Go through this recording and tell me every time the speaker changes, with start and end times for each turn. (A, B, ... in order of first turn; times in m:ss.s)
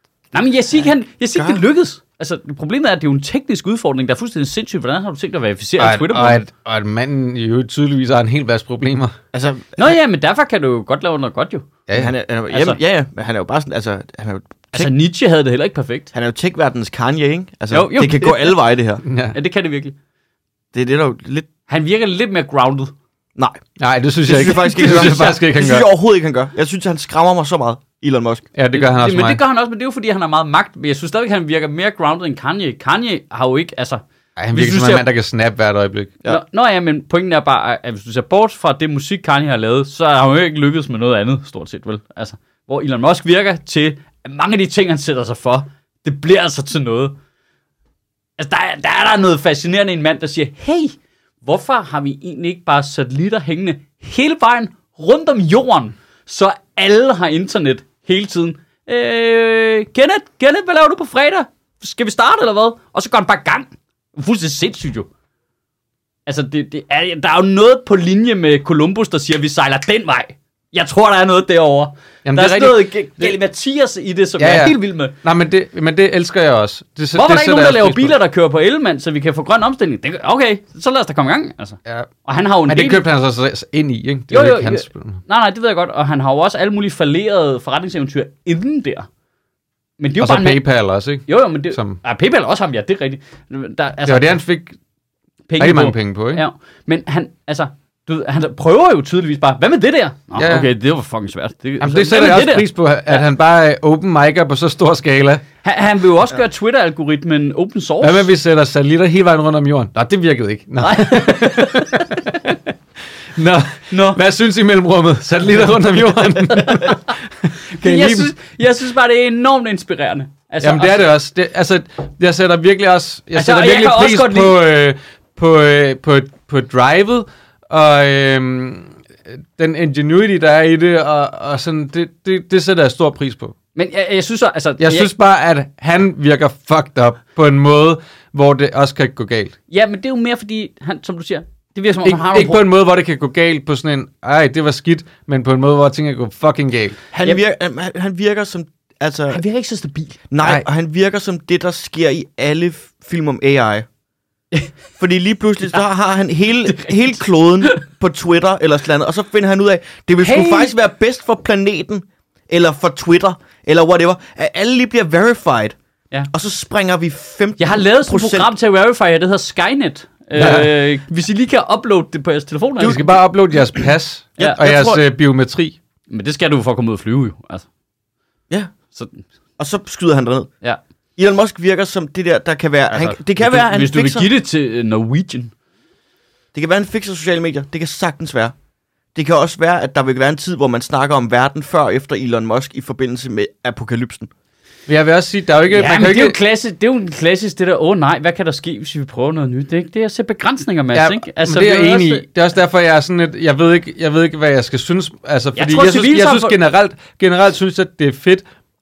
0:00.3-0:06.4 A
0:01.4-0:01.6 B
0:05.8-0:09.2 C
0:09.3-0:09.9 B
0:09.8-0:11.7 A
0:11.9-0:14.9 B
0:12.5-0:12.8 A
0:14.7-0:16.1 A
0:16.1-0:19.0 B
0:17.7-0:18.6 A
0:19.0-0:19.4 C
0:19.3-0:20.0 A
0:20.7-0:21.5 B
0:21.7-0:22.9 A
0:23.4-0:23.6 B
0:23.8-0:25.9 C
0:24.2-0:28.5 B
0:28.5-0:29.4 C
0:28.7-0:34.0 A
0:34.4-0:36.2 C
0:34.5-0:35.0 A
0:36.2-0:47.2 A
0:48.4-1:05.1 A
1:06.2-1:15.1 A
1:12.2-1:13.3 C
1:14.4-1:18.2 C
1:17.1-1:23.0 A
1:22.7-1:25.2 C
1:24.3-1:29.1 A
1:30.0-1:30.6 A
1:30.2-1:32.0 C
1:31.2-1:34.4 A
1:34.0-1:34.8 C
1:35.5-1:43.2 A
1:35.6-1:36.4 C
1:40.4-1:40.7 C
1:41.8-1:45.4 C
1:45.6-1:48.3 A
1:48.0-1:52.6 C
1:50.8-1:52.3 A
1:53.3-1:58.3 C
1:53.9-1:54.2 A
1:56.5-1:57.1 A
1:57.7-2:01.1 A
2:00.6-2:13.5 C
2:03.3-2:04.6 A
2:13.7-2:15.1 A
2:14.8-2:19.5 C
2:19.7-2:22.6 A
2:22.0-2:27.0 C
2:27.1-2:29.4 B
2:29.3-2:30.2 A
2:30.3-2:33.8 B
2:30.4-2:30.6 C
2:35.0-2:45.8 B
2:36.6-2:37.8 A
2:40.2-2:40.7 A
2:46.3-2:48.5 B
2:47.6-2:53.0 A
2:50.4-2:50.7 C
2:52.8-2:55.8 C
2:54.4-2:55.0 B
2:56.1-2:57.7 A
2:58.9-2:59.2 A
2:59.6-3:00.5 B
3:01.2-3:04.3 B
3:02.9-3:05.5 A
3:06.5-3:08.5 B
3:09.1-3:14.3 B
3:14.9-3:16.4 C
3:15.7-3:22.2 A
3:20.9-3:28.4 C
3:25.6-3:26.6 A